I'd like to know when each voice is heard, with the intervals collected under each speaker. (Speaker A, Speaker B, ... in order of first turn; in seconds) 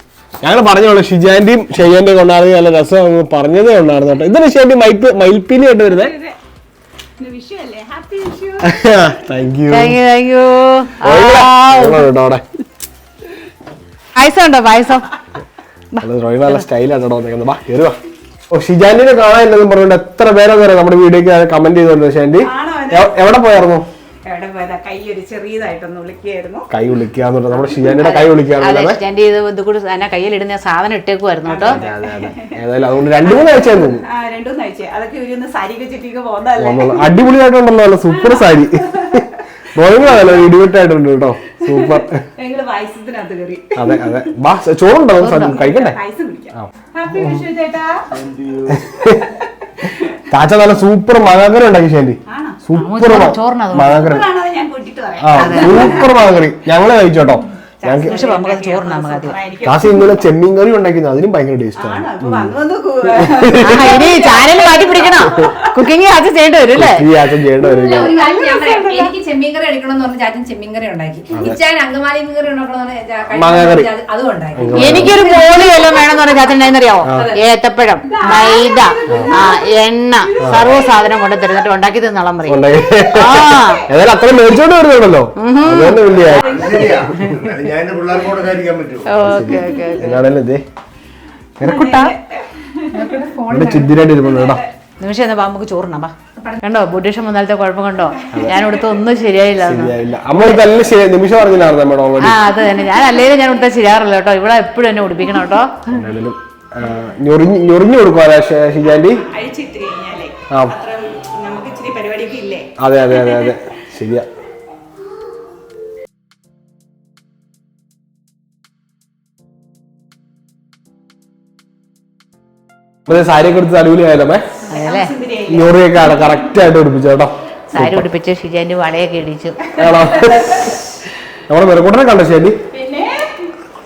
Speaker A: 0.4-6.2, 8.6-10.0, 11.0-12.4, 16.0-18.0, 18.5-23.9, 26.7-29.0, 31.7-34.0, 36.6-42.2, 43.8-46.0, 46.5-47.5, 48.7-49.3, 50.3-54.3, 55.2-58.2, 59.6-62.5, 63.1-64.0, 66.7-68.2, 71.3-71.6, 73.3-73.9, 74.5-75.2, 77.0-77.3, 80.4-80.8, 82.5-86.5, 89.2-90.6, 91.6-92.1, 93.5-94.6, 98.3-98.6, 99.6-102.4, 105.9-109.2, 110.5-110.8, 112.8-114.3, 123.1-124.5, 125.5-128.0, 129.8-130.9, 131.5-132.6
Speaker B: 5.9-6.4, 7.2-8.7, 22.4-23.2, 24.3-26.7, 31.5-32.6, 33.2-37.2, 38.2-39.3, 41.6-44.2, 45.4-48.1, 49.8-50.1, 52.3-52.6, 53.9-56.2, 57.8-60.0, 61.8-65.7, 68.0-69.1, 78.1-79.6, 86.5-87.0, 91.6-93.2, 94.2-94.7, 98.3-98.8, 109.2-113.6, 124.7-126.3, 130.2-130.7, 132.7-133.4
Speaker C: 9.7-12.0, 14.2-15.1, 27.9-31.8, 45.2-45.6, 52.8-54.1, 55.4-56.0, 58.1-59.4, 63.6-67.1, 74.7-83.8, 85.4-86.4, 89.1-90.2, 95.0-100.6, 102.2-106.0, 124.7-125.1, 127.7-129.6
Speaker D: 48.1-48.9, 86.3-89.5
Speaker E: 67.6-76.0, 77.1-77.4, 92.9-94.0